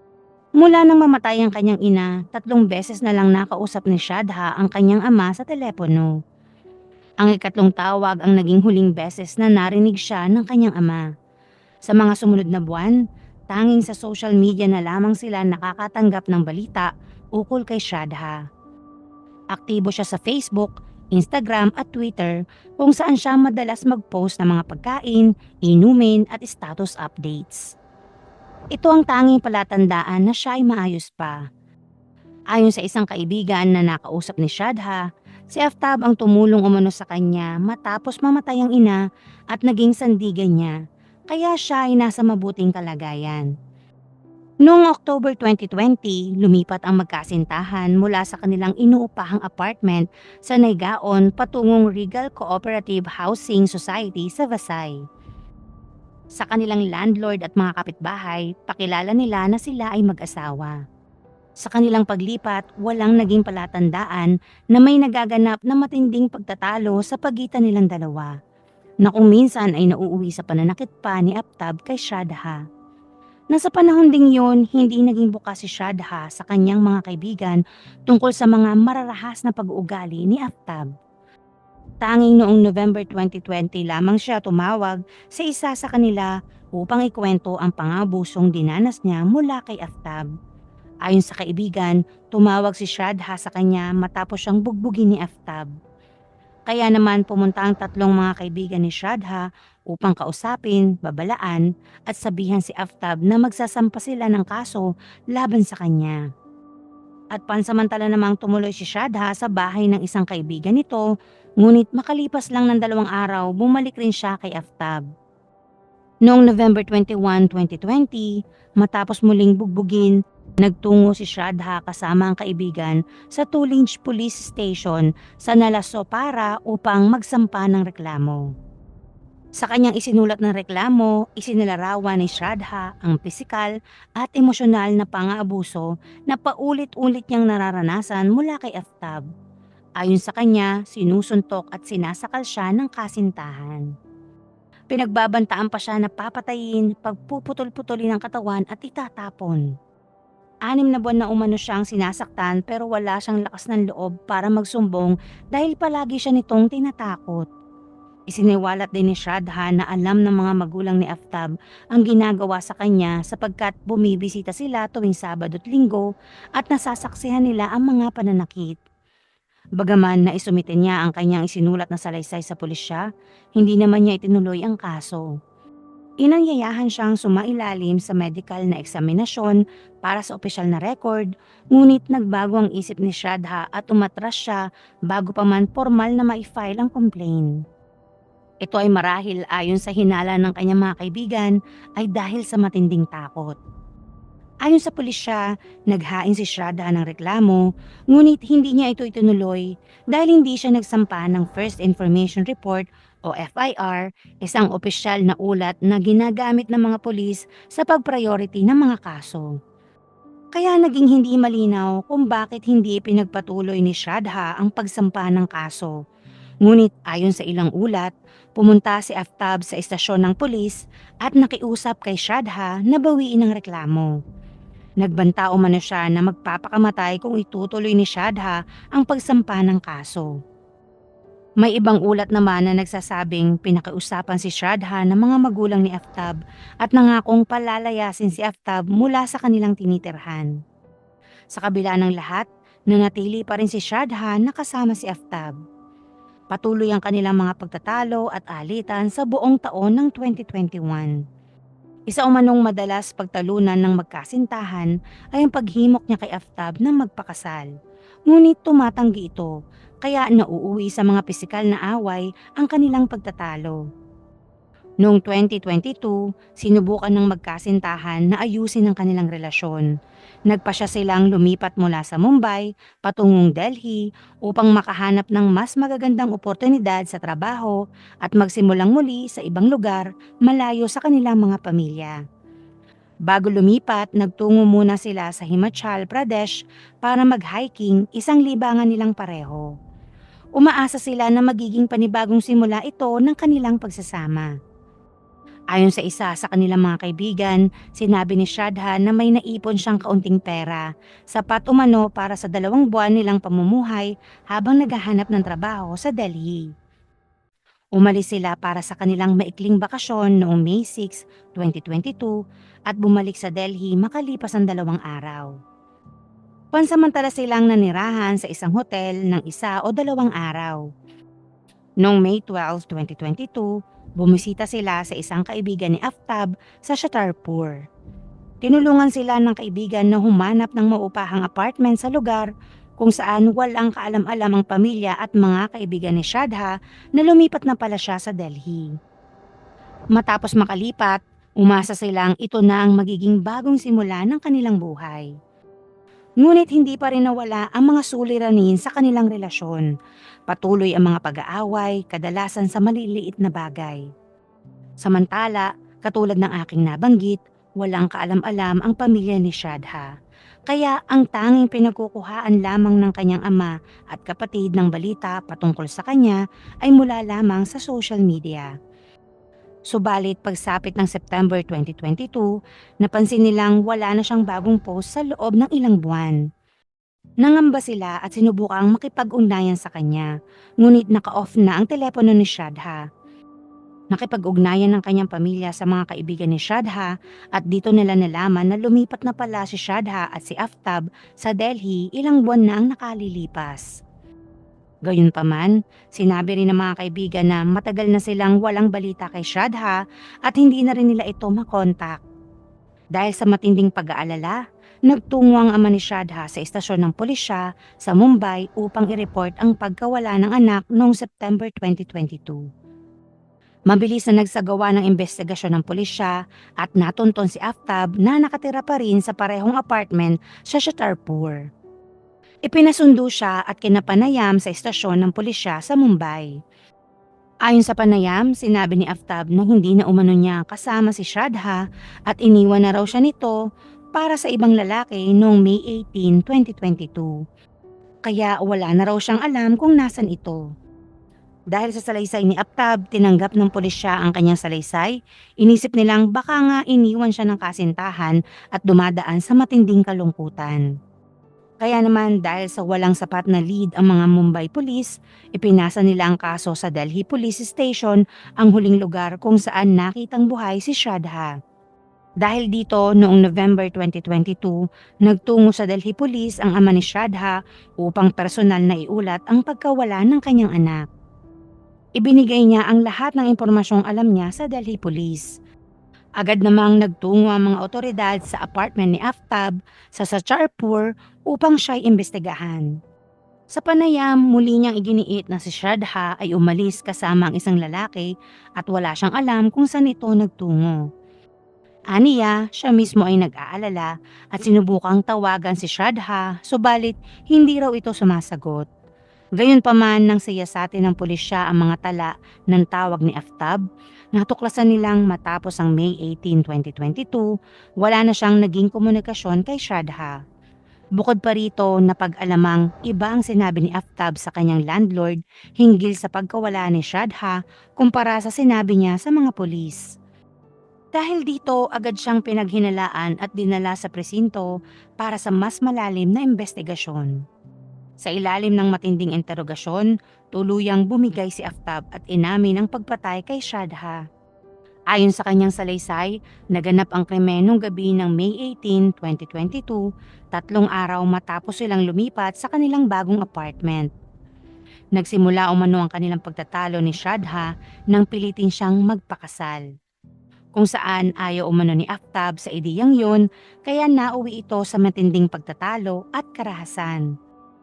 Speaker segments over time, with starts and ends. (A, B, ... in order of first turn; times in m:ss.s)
0:00.6-0:06.1 A
0:07.2-0:11.0 A
0:11.8-0:13.0 A
0:13.5-0:18.4 A
0:19.5-0:27.7 A
0:28.7-0:31.4 A
0:32.5-0:39.0 A
0:39.5-0:40.7 A
0:41.3-0:43.5 A
0:44.6-0:54.9 A
0:56.4-1:00.8 A
1:01.6-1:08.3 A
1:09.0-1:12.6 A
1:13.5-1:20.9 A
1:22.0-1:30.2 A
1:31.0-1:35.7 A
1:36.7-1:46.2 A
1:47.3-1:51.0 A
1:51.6-1:55.0 A
1:56.2-2:08.4 A
2:09.6-2:19.2 A
2:20.0-2:23.8 A
2:24.9-2:29.6 A
2:30.7-2:37.5 A
2:38.3-2:46.0 A
2:46.6-2:48.8 A
2:49.8-2:53.0 A
2:53.6-2:55.3 A
2:56.2-3:07.5 A
3:08.6-3:13.6 A
3:14.7-3:17.6 A
3:18.1-3:29.5 A
3:30.5-3:35.9 A
3:36.6-3:44.1 A
3:45.0-3:50.3 A
3:51.6-4:00.5 A
4:01.5-4:05.5 A
4:06.5-4:11.1 A
4:12.1-4:17.7 A
4:18.3-4:19.5 A
4:20.0-4:23.8 A
4:25.0-4:29.9 A
4:30.5-4:42.2 A
4:43.3-4:49.7 A
4:50.6-4:54.5 A
4:55.7-5:06.7 A
5:08.0-5:12.3 A
5:12.9-5:15.5 A
5:16.7-5:20.8 A
5:22.0-5:27.8 A
5:28.6-5:32.5 A
5:33.0-5:38.9 A
5:40.2-5:45.3 A
5:46.4-5:49.9 A
5:50.5-5:54.0 A
5:55.0-6:00.1 A
6:00.7-6:08.7 A
6:09.9-6:12.5 A
6:13.0-6:16.4 A
6:17.4-6:20.3 A
6:20.8-6:23.0 A
6:24.1-6:33.8 A
6:35.1-6:42.2 A
6:43.2-6:44.6 A
6:45.1-6:52.6 A
6:53.9-7:01.6 A
7:02.7-7:06.5 A
7:07.7-7:13.6 A
7:14.2-7:17.3 A
7:18.3-7:20.6 A
7:21.7-7:30.8 A
7:31.8-7:41.5 A
7:42.4-7:51.0 A
7:52.2-7:55.5 A
7:56.4-8:02.9 A
8:03.8-8:11.0 A
8:12.1-8:18.8 A
8:19.6-8:23.8 A
8:24.3-8:27.5 A
8:28.0-8:30.4 A
8:31.2-8:40.1 A
8:41.1-8:44.7 A
8:45.2-8:47.3 A
8:48.2-8:54.2 A
8:55.1-9:00.0 A
9:00.5-9:04.1 A
9:05.1-9:09.8 A
9:10.7-9:17.2 A